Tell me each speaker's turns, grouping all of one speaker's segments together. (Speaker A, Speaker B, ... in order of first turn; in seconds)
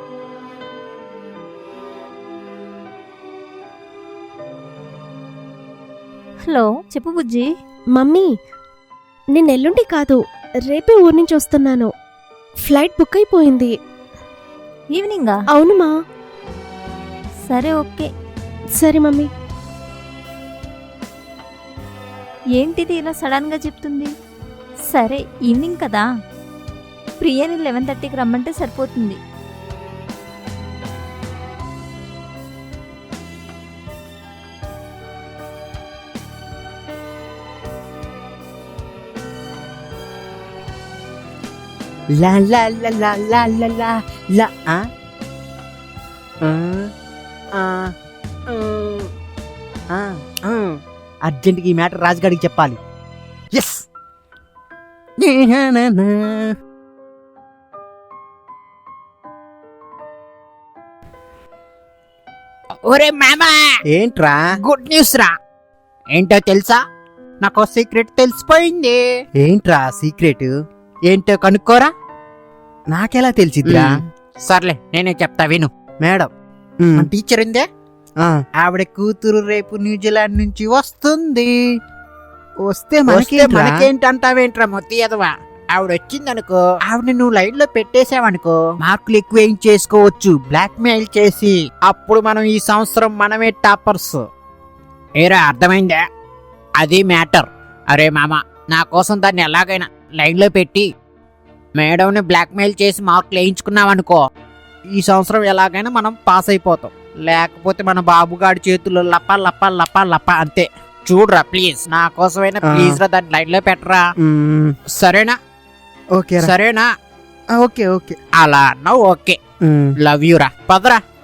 Speaker A: 6.4-7.5, 14.9-15.4, 17.5-18.1, 22.6-24.1, 24.9-26.1, 27.2-29.2
Speaker B: 7.9-8.3, 9.3-11.9, 12.6-13.7, 15.5-15.9, 18.8-19.3
Speaker C: 42.2-44.9, 46.4-46.9, 47.5-47.9, 48.5-49.1, 49.9-52.8, 53.5-53.9, 55.2-56.5, 63.9-64.5, 69.4-70.5, 72.9-74.0, 76.0-76.3, 76.8-77.1, 82.6-83.8, 112.6-113.0, 114.2-114.8, 116.2-116.5, 117.6-118.2, 119.6-119.9
Speaker D: 62.9-63.6, 64.6-65.3, 66.1-66.8, 67.4-69.0, 71.1-71.9, 73.7-75.7, 77.0-77.7, 78.6-81.5, 83.1-94.2, 95.2-96.0, 96.8-100.9, 101.8-104.2, 104.9-114.0, 114.9-115.3, 116.4-116.9, 118.4-119.4, 120.0-121.0